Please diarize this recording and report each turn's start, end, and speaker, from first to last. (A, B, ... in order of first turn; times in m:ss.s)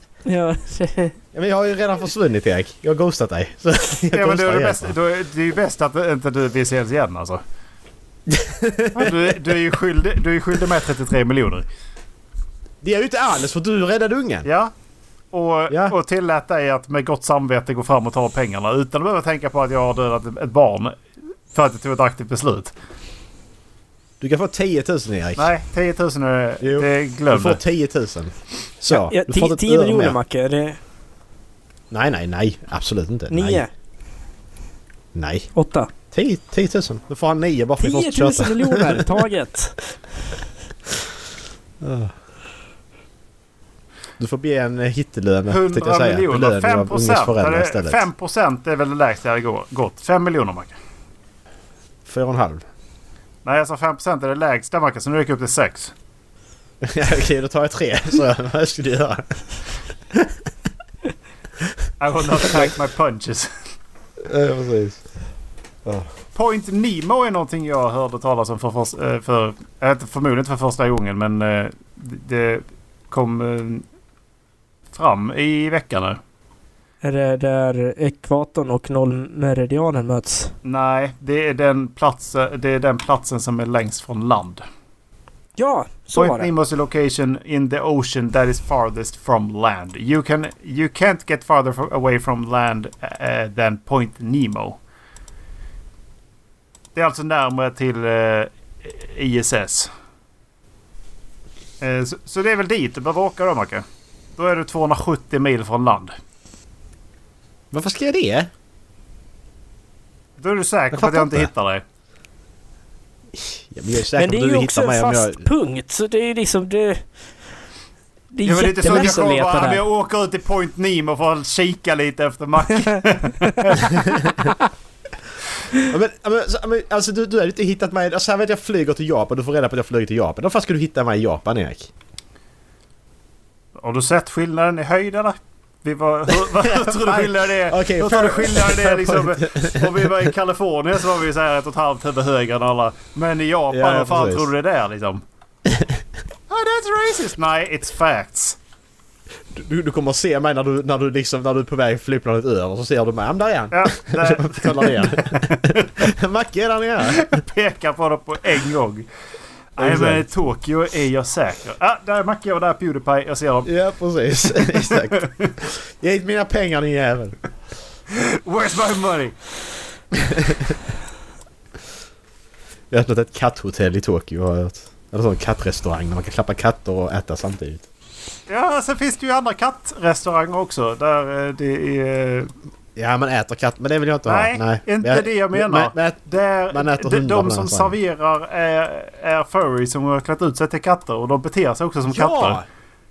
0:00.2-0:01.2 A
0:01.3-0:04.9 B
0:04.1-0:07.4 C
0:08.3-0:09.1 B
0:08.9-0:11.7 C
0:12.8-0:14.5 B
0:14.4-0:14.7 C
0:15.3-0:21.0 C
0:15.7-0:15.9 B
0:21.5-0:22.7 C
0:24.2-0:25.5 B
0:25.4-0:27.6 C
0:26.6-0:30.2 B
0:28.9-0:30.8 A
0:31.9-0:33.6 B
0:33.3-0:33.7 A
0:35.1-0:35.5 B
0:35.5-0:35.9 A
0:36.1-0:39.2 B
0:37.8-0:40.3 A
0:41.8-0:42.1 B
0:44.2-0:48.0 B
0:45.5-0:50.8 C
0:52.0-0:52.6 B
0:53.4-0:55.9 C
0:56.8-0:59.4 B
1:02.0-1:03.5 C
1:04.2-1:05.0 B
1:06.3-1:13.8 C
1:14.9-1:16.2 C
1:17.0-1:20.5 A
1:20.6-1:24.6 C
1:25.6-1:26.5 A
1:26.1-1:34.8 C
1:36.9-1:39.9 C
1:41.8-1:43.8 C
1:44.4-1:46.2 C
1:47.7-1:48.5 B
1:50.4-1:51.8 C
1:50.9-1:51.5 B
1:53.3-1:55.5 B
1:54.2-1:57.1 A
1:58.3-1:59.8 A
1:58.4-2:03.9 C
2:03.9-2:04.5 B
2:05.8-2:11.9 B
2:13.8-2:25.2 C
2:16.6-2:20.3 B
2:23.7-2:24.5 B
2:25.7-2:26.0 B
2:26.5-2:28.6 C
2:29.5-2:37.3 B
2:33.7-2:36.1 C
2:37.0-2:39.1 C
2:39.8-2:43.7 C
2:39.8-2:40.2 B
2:43.6-2:47.4 B
2:44.4-2:45.5 C
2:48.1-2:49.4 C
2:50.1-2:50.7 B
2:52.9-2:57.9 B
2:58.5-3:02.5 C
3:03.0-3:08.0 B
3:04.2-3:12.6 C
3:12.1-3:12.6 B